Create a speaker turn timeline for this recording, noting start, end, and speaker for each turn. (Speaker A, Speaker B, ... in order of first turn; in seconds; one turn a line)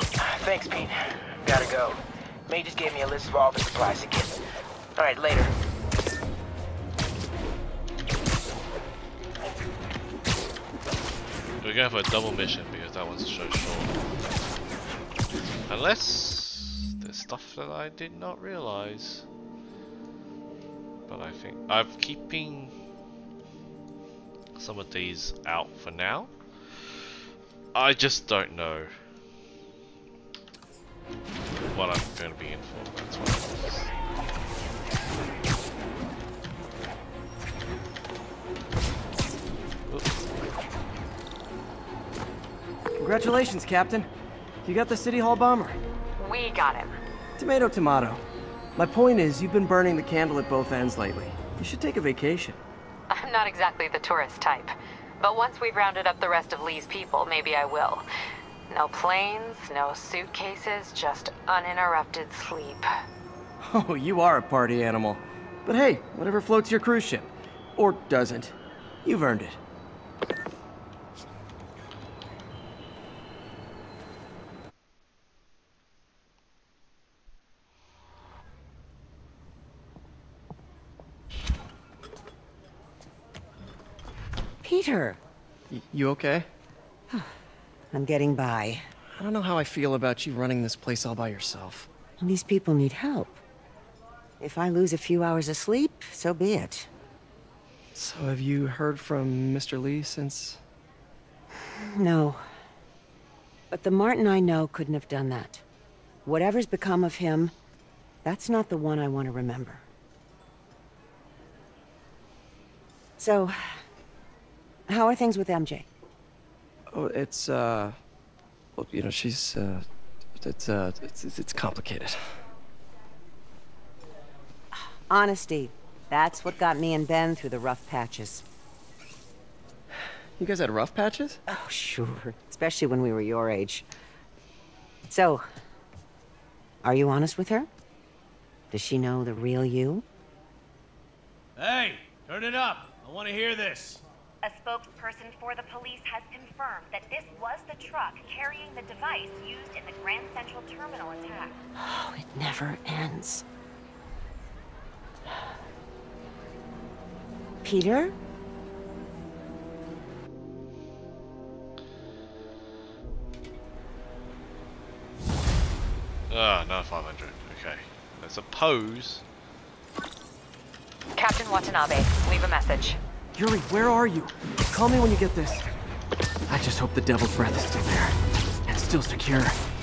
Speaker A: 0.1-4.4
Speaker A: 4.9-5.5
Speaker B: 11.6-13.9
Speaker B: 15.7-19.2
Speaker B: 21.1-22.7
Speaker B: 24.5-27.2
Speaker B: 27.7-28.9
Speaker B: 31.7-33.9
Speaker C: 43.0-44.1
Speaker C: 44.6-45.8
Speaker D: 46.2-47.0
Speaker C: 47.4-48.2
Speaker C: 48.8-52.6
Speaker D: 53.1-58.1
Speaker D: 58.7-62.9
Speaker C: 63.6-69.6
Speaker E: 84.6-85.2
Speaker C: 85.7-86.5
Speaker E: 87.9-88.8
Speaker C: 89.2-91.9
Speaker E: 92.2-93.4
Speaker E: 94.4-96.9
Speaker C: 97.9-100.6
Speaker E: 101.8-102.4
Speaker E: 103.7-105.6
Speaker E: 106.2-107.5
Speaker E: 108.2-109.8
Speaker E: 113.2-113.6
Speaker E: 114.9-115.8
Speaker C: 116.9-118.0
Speaker C: 118.8-119.8
Speaker C: 120.4-122.3
Speaker E: 125.1-128.4
Speaker C: 130.4-131.4
Speaker E: 131.5-133.8
Speaker E: 135.1-135.4
Speaker E: 136.8-137.7
Speaker E: 138.7-140.0
Speaker F: 141.6-144.0
Speaker G: 144.4-151.6
Speaker E: 151.8-153.4
Speaker E: 157.6-158.1
Speaker B: 166.3-169.2
Speaker D: 171.2-173.0
Speaker C: 173.3-175.7
Speaker C: 176.5-179.6